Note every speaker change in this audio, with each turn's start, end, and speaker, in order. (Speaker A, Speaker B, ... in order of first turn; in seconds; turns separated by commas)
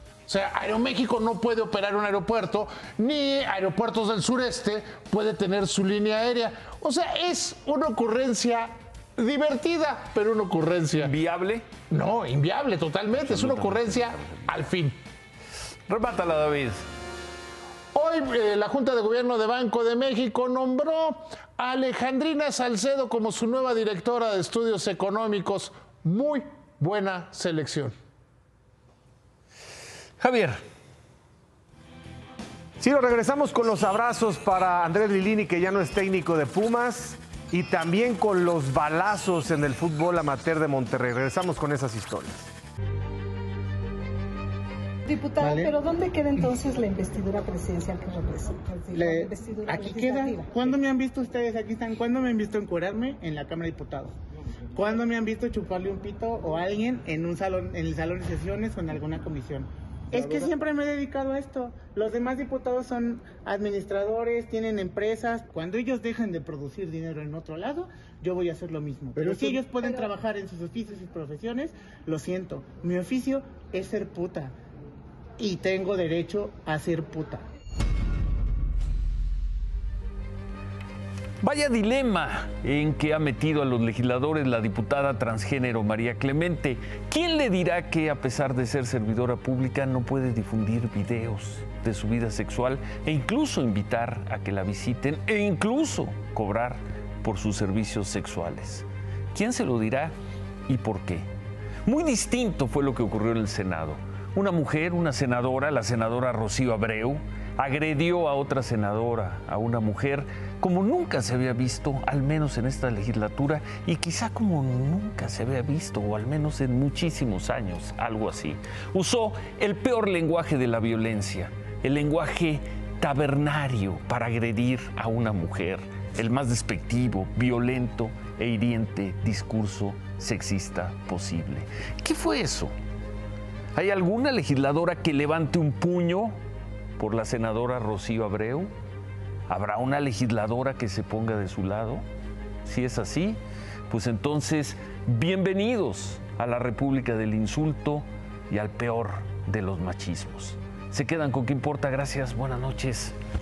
Speaker A: 0.3-11.1, Speaker B: 11.0-11.7, Speaker A: 11.9-15.0, Speaker B: 13.2-14.5, Speaker B: 15.9-16.9, Speaker A: 17.9-27.9, Speaker B: 30.2-30.6, Speaker C: 32.8-42.5, Speaker D: 45.1-50.5, Speaker E: 45.4-45.7, Speaker E: 48.9-54.2, Speaker E: 54.7-74.5, Speaker E: 75.4-77.4, Speaker B: 81.4-100.1, Speaker B: 100.7-101.3, Speaker B: 101.8-132.7, Speaker B: 133.7-136.4, Speaker B: 137.0-138.7, Speaker B: 139.5-142.1, Speaker B: 142.6-153.2